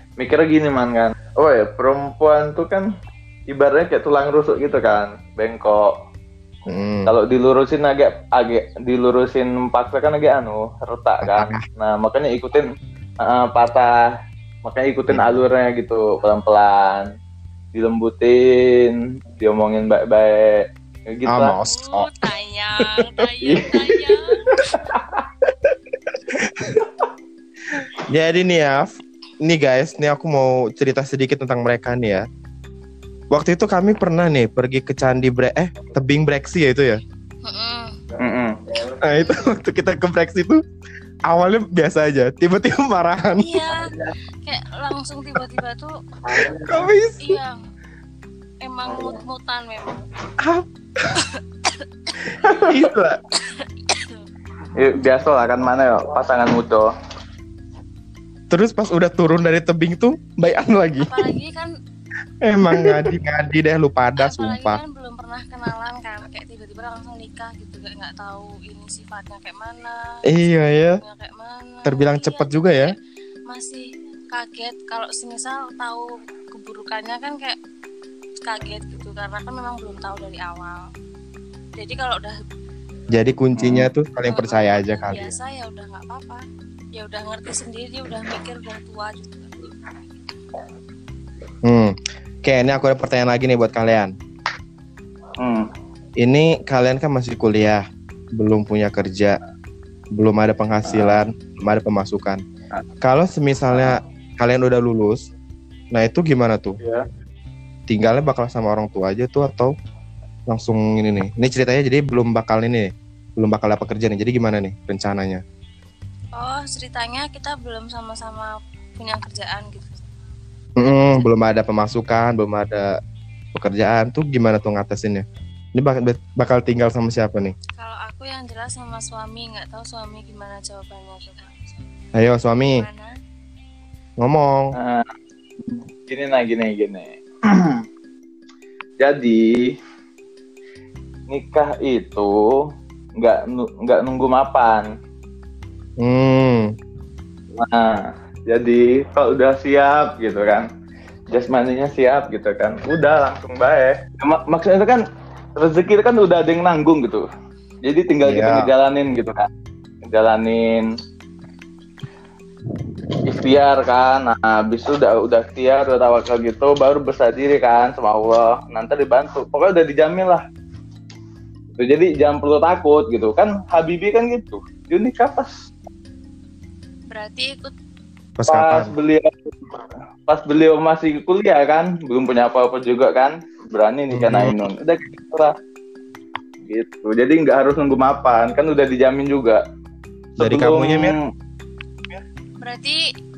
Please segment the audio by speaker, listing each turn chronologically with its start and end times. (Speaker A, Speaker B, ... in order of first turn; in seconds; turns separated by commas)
Speaker A: 0.2-2.9, Speaker A: 3.5-5.9, Speaker B: 6.7-7.1, Speaker A: 7.0-12.7, Speaker B: 11.2-11.6, Speaker A: 13.2-14.0, Speaker A: 14.6-17.1, Speaker A: 17.7-21.6, Speaker B: 21.3-22.2, Speaker C: 21.7-24.4, Speaker A: 23.4-24.0, Speaker A: 24.6-25.2, Speaker B: 26.4-26.8, Speaker B: 28.1-32.2, Speaker B: 33.3-37.0, Speaker C: 37.4-38.0, Speaker A: 38.2-38.6, Speaker B: 39.0-40.6, Speaker B: 41.3-43.7, Speaker C: 43.4-46.0, Speaker A: 46.4-46.7, Speaker B: 46.4-47.4, Speaker C: 47.2-47.6, Speaker C: 48.6-50.0, Speaker B: 50.4-51.2, Speaker B: 52.4-53.2, Speaker C: 53.4-54.2, Speaker A: 54.8-56.9, Speaker B: 58.5-61.2, Speaker C: 61.0-61.7, Speaker B: 62.4-64.8, Speaker C: 64.2-72.9, Speaker B: 70.3-71.0, Speaker B: 71.8-72.9, Speaker C: 73.5-77.6, Speaker C: 78.4-80.8, Speaker C: 81.8-82.4, Speaker B: 83.1-85.3, Speaker A: 83.6-83.9, Speaker C: 84.3-86.4, Speaker C: 87.0-89.7, Speaker B: 91.6-94.1, Speaker A: 95.4-95.7, Speaker B: 96.2-97.8, Speaker B: 98.3-99.4, Speaker B: 100.2-102.4, Speaker A: 100.8-101.2, Speaker B: 103.0-105.3, Speaker A: 103.7-104.0, Speaker B: 105.9-106.8, Speaker B: 107.9-109.7, Speaker B: 110.5-115.4, Speaker C: 116.3-120.0, Speaker B: 120.8-123.0, Speaker C: 120.8-121.3, Speaker B: 123.5-127.5, Speaker C: 127.8-131.7, Speaker B: 132.1-132.8, Speaker C: 132.6-133.1, Speaker B: 134.2-134.8, Speaker A: 134.7-135.1, Speaker A: 135.6-137.8, Speaker A: 139.0-139.7, Speaker A: 141.3-142.7, Speaker A: 143.2-144.9, Speaker B: 146.0-146.8, Speaker A: 147.6-150.7, Speaker A: 151.3-155.0, Speaker A: 155.6-157.2, Speaker A: 157.8-159.5, Speaker B: 158.2-158.7, Speaker A: 160.1-160.9, Speaker A: 163.2-170.4, Speaker A: 171.8-175.5, Speaker C: 177.1-177.7, Speaker B: 178.4-178.9, Speaker A: 178.5-179.3, Speaker A: 180.3-185.5, Speaker B: 184.1-184.6, Speaker A: 186.7-189.6, Speaker B: 190.4-191.2, Speaker A: 190.4-191.2, Speaker C: 192.6-193.0